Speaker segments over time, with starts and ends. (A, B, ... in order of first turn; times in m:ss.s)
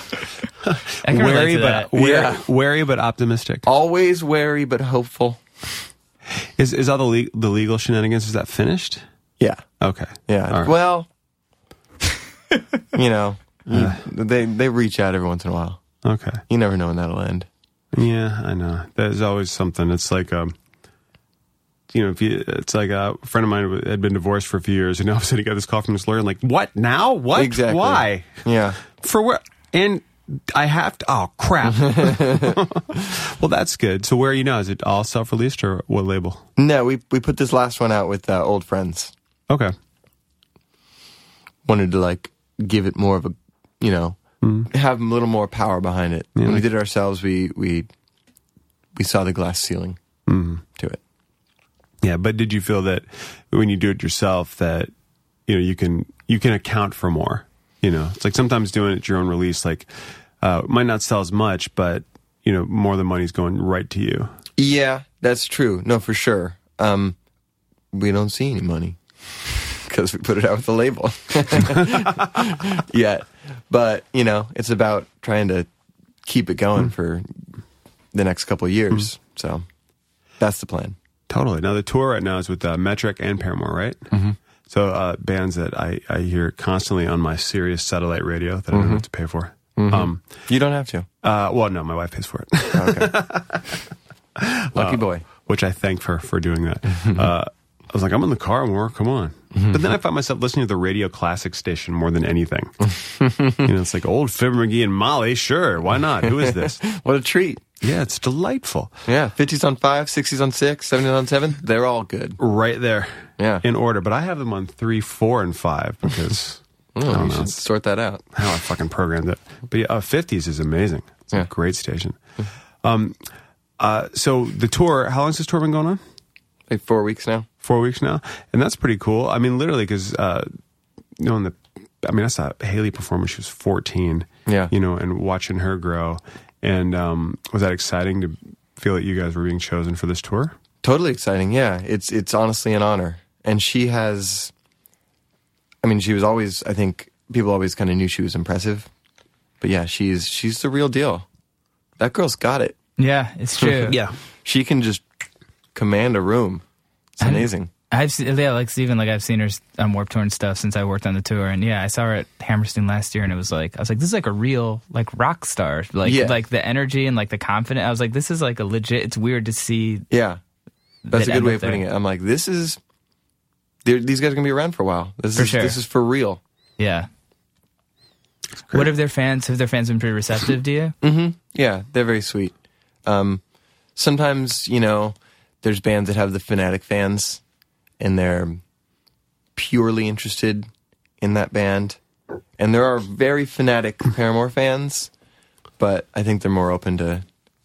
0:00.6-0:03.7 A
0:01.0-0:01.9 B
0:01.9-0:02.5 C
0:03.7-0:05.4 C
0:06.6-0:09.0 A
0:09.4-0:09.7 C
0:09.8-0:10.7 A
0:10.3-0:11.1 C
0:12.9-0:15.8 C
0:13.7-0:14.0 A
0:16.0-0:16.4 A
0:16.5-0:17.5 C
0:17.9-0:20.6 A
0:21.9-0:36.5 A
0:27.4-0:28.8 C
0:31.9-0:32.6 C
0:36.6-0:39.1 C
0:41.6-0:47.9 C
0:44.4-0:44.7 A
0:46.4-0:46.6 A
0:49.0-0:50.0 C
0:50.3-0:50.6 A
0:52.0-0:54.9 A
0:55.5-1:04.3 A
1:04.6-1:07.2 C
1:07.9-1:09.0 C
1:09.7-1:15.7 C
1:16.2-1:17.3 C
1:18.1-1:19.6 C
1:20.4-1:21.0 C
1:21.3-1:24.0 A
1:24.1-1:24.4 C
1:24.7-1:30.2 A
1:28.7-1:29.1 C
1:29.7-1:31.1 C
1:31.2-1:33.8 A
1:32.7-1:33.1 C
1:34.4-1:43.0 A
1:34.7-1:35.3 C
1:43.1-1:43.6 C
1:43.6-1:46.8 A
1:46.2-1:47.7 C
1:47.8-1:48.9 A
1:49.1-1:52.4 C
1:52.4-1:57.6 A
1:53.4-1:53.6 C
1:57.0-1:58.2 C
1:58.4-2:02.2 A
2:02.8-2:03.2 A
2:03.8-2:06.0 A
2:06.7-2:07.5 C
2:07.6-2:10.5 A
2:11.2-2:20.6 A
2:14.4-2:14.7 C
2:20.8-2:24.5 C
2:25.8-2:28.9 C
2:29.6-2:31.3 C
2:32.0-2:32.8 C
2:33.0-2:34.0 B
2:33.6-2:35.0 C
2:33.9-2:34.2 A
2:35.7-2:36.6 C
2:37.2-2:37.7 C
2:37.2-2:50.1 B
2:46.0-2:46.4 C
2:50.1-2:50.4 C
2:51.1-2:51.8 B
2:51.1-2:52.8 C
2:53.8-2:56.4 C
2:55.4-2:55.8 B
2:56.8-2:57.1 B
2:58.7-3:01.0 B
3:01.0-3:02.5 C
3:03.0-3:03.4 C
3:04.0-3:07.4 C
3:08.0-3:08.6 C
3:09.6-3:10.7 C
3:11.2-3:12.0 C
3:12.6-3:15.1 C
3:15.8-3:17.2 C